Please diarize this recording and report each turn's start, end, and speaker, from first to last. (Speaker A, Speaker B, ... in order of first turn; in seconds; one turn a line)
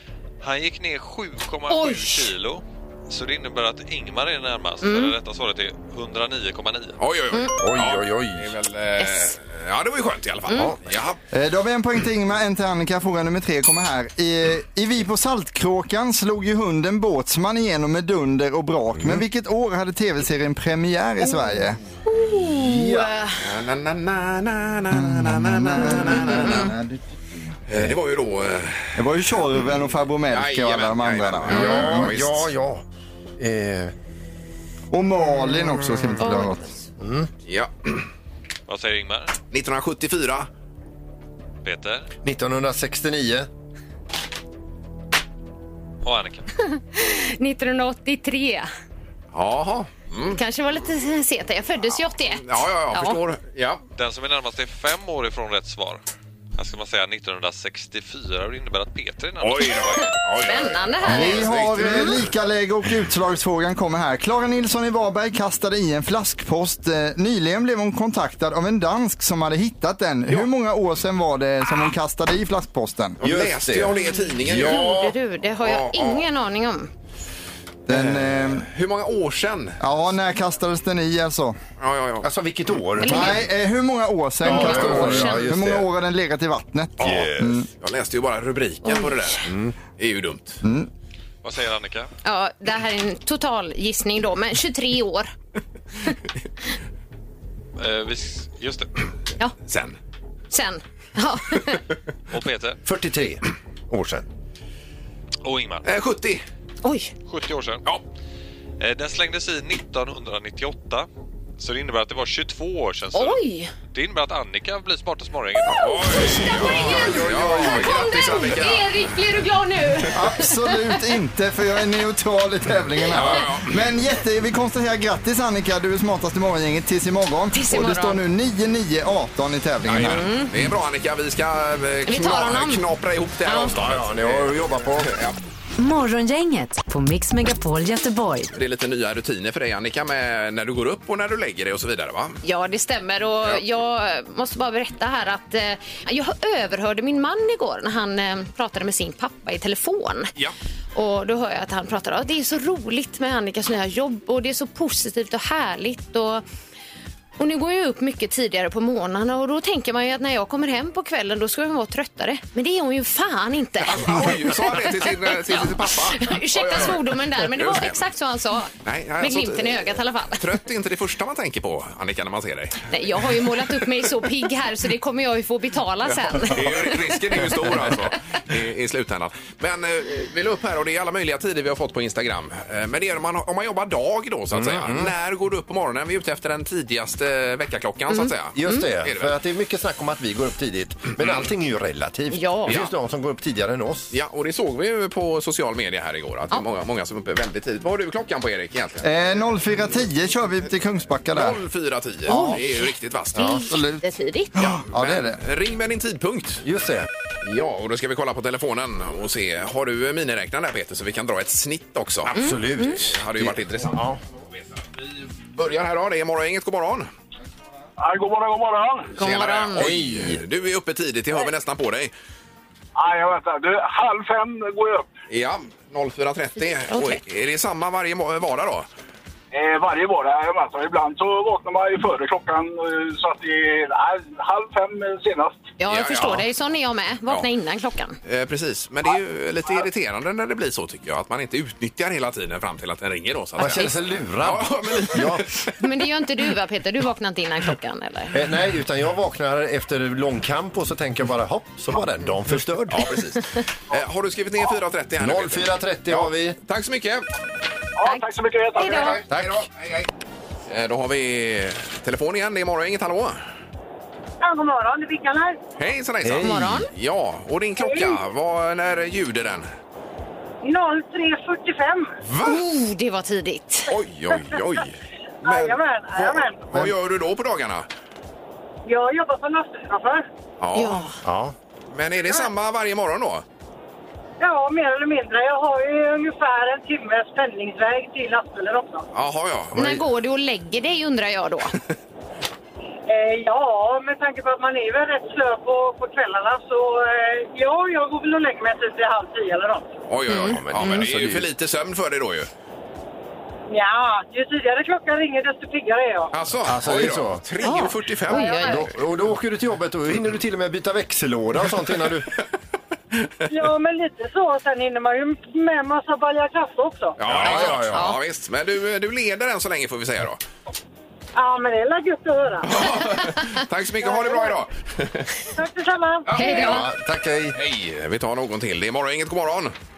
Speaker A: 0.4-7.0
Speaker B: 1.7-2.3
Speaker B: 4.8-5.1
Speaker C: 7.0-11.2
Speaker D: 7.6-8.5
Speaker B: 9.0-9.3
Speaker B: 10.5-10.7
Speaker D: 10.5-10.8
Speaker E: 11.3-21.8
Speaker B: 22.1-23.4
Speaker D: 22.5-23.1
Speaker C: 23.4-26.7
Speaker E: 24.9-27.0
Speaker B: 26.1-26.7
Speaker C: 27.7-29.0
Speaker E: 29.0-32.1
Speaker C: 30.3-32.5
Speaker D: 31.5-32.8
Speaker B: 31.6-31.8
Speaker D: 33.4-33.9
Speaker E: 34.9-36.7
Speaker B: 36.2-36.8
Speaker D: 37.0-37.3
Speaker C: 37.5-38.1
Speaker A: 38.7-39.4
Speaker C: 39.5-40.5
Speaker A: 41.6-42.1
Speaker D: 42.2-43.5
Speaker A: 46.0-46.5
Speaker B: 46.6-48.7
Speaker C: 49.3-50.4
Speaker B: 50.3-53.2
Speaker C: 52.3-53.8
Speaker A: 54.0-56.0
Speaker A: 56.6-60.0
Speaker C: 59.4-62.3
Speaker B: 59.9-62.2
Speaker E: 61.1-73.2
Speaker C: 73.2-74.9
Speaker D: 73.2-75.2
Speaker B: 74.6-76.9
Speaker C: 75.6-76.2
Speaker E: 77.9-78.7
Speaker C: 77.9-79.8
Speaker E: 79.8-81.6
Speaker C: 81.8-82.3
Speaker D: 82.2-83.4
Speaker B: 83.0-83.4
Speaker E: 83.0-87.7
Speaker D: 84.4-85.9
Speaker B: 84.4-85.5
Speaker D: 87.0-87.5
Speaker C: 87.8-90.6
Speaker B: 88.8-89.2
Speaker D: 89.5-89.8
Speaker E: 90.6-90.9
Speaker A: 91.4-92.1
Speaker B: 92.2-95.3
Speaker A: 97.8-98.9
Speaker C: 99.7-100.0
Speaker B: 100.5-101.8
Speaker A: 102.3-102.8
Speaker D: 102.8-104.3
Speaker A: 105.4-105.9
Speaker C: 105.8-106.4
Speaker B: 106.8-107.1
Speaker A: 107.3-107.8
Speaker A: 108.8-116.1
Speaker B: 113.1-113.7
Speaker C: 115.7-118.9
Speaker B: 115.8-120.9
Speaker D: 116.3-117.9
Speaker E: 120.1-130.2
Speaker C: 123.1-123.9
Speaker B: 127.5-128.2
Speaker C: 129.9-135.4
Speaker B: 130.0-130.5
Speaker B: 132.1-132.8
Speaker B: 133.5-133.7
Speaker D: 133.7-135.2
Speaker F: 135.8-138.5
Speaker C: 138.6-142.4
Speaker B: 142.4-150.3
Speaker B: 150.9-156.4
Speaker B: 157.4-170.5
Speaker C: 163.8-168.0
Speaker C: 168.8-172.9
Speaker B: 172.9-177.5
Speaker C: 176.3-189.4
Speaker D: 184.5-185.1
Speaker B: 188.1-188.8
Speaker D: 188.6-194.1
Speaker B: 192.3-192.8
Speaker C: 192.7-192.9
Speaker C: 194.1-199.1
Speaker E: 199.0-201.6
Speaker C: 201.3-203.7
Speaker E: 202.3-202.6
Speaker B: 202.3-202.8
Speaker D: 203.4-203.6
Speaker B: 203.4-204.6
Speaker E: 203.5-204.0
Speaker E: 204.6-205.4
Speaker C: 204.6-206.6
Speaker D: 206.6-207.1
Speaker C: 207.4-214.0
Speaker D: 212.3-214.2
Speaker B: 212.3-213.0
Speaker C: 214.7-217.1
Speaker G: 218.0-219.1
Speaker B: 219.2-219.9
Speaker C: 219.2-222.1
Speaker D: 219.8-220.4
Speaker G: 223.0-225.1
Speaker C: 225.3-228.9
Speaker B: 226.9-227.2
Speaker G: 229.5-235.6
Speaker B: 235.8-238.2
Speaker C: 235.9-236.5
Speaker C: 238.2-245.8
Speaker D: 243.6-245.5
Speaker B: 245.8-248.4
Speaker D: 248.3-253.1
Speaker C: 252.9-257.3
Speaker D: 255.2-256.6
Speaker G: 258.0-259.2
Speaker B: 258.0-259.2
Speaker C: 258.9-260.1
Speaker D: 259.3-259.7
Speaker C: 260.7-263.4
Speaker H: 264.4-265.6
Speaker C: 265.8-269.7
Speaker D: 266.2-266.8
Speaker B: 266.4-266.9
Speaker H: 267.8-268.2
Speaker H: 270.6-272.1
Speaker C: 272.2-272.6
Speaker B: 272.4-273.9
Speaker C: 273.9-277.9
Speaker H: 274.3-274.6
Speaker H: 275.4-276.7
Speaker H: 278.9-280.3
Speaker C: 280.6-281.1
Speaker B: 280.7-281.2
Speaker D: 281.2-281.6
Speaker C: 281.9-283.4
Speaker H: 284.4-289.1
Speaker C: 289.1-289.8
Speaker D: 289.7-290.0
Speaker B: 289.8-291.8
Speaker H: 293.1-299.9
Speaker C: 300.1-302.5
Speaker B: 300.3-301.1
Speaker D: 300.4-301.5
Speaker H: 303.7-306.4
Speaker C: 306.3-308.9
Speaker D: 306.6-307.4
Speaker B: 307.6-308.9
Speaker H: 308.3-308.9
Speaker D: 308.6-312.3
Speaker H: 313.5-317.2
Speaker C: 317.2-320.4
Speaker D: 317.2-318.1
Speaker B: 317.7-318.2
Speaker H: 321.4-322.9
Speaker C: 322.6-325.4
Speaker H: 324.0-324.6
Speaker H: 325.6-326.7
Speaker C: 326.3-326.9
Speaker B: 326.4-326.9
Speaker D: 326.6-327.6
Speaker C: 327.5-329.8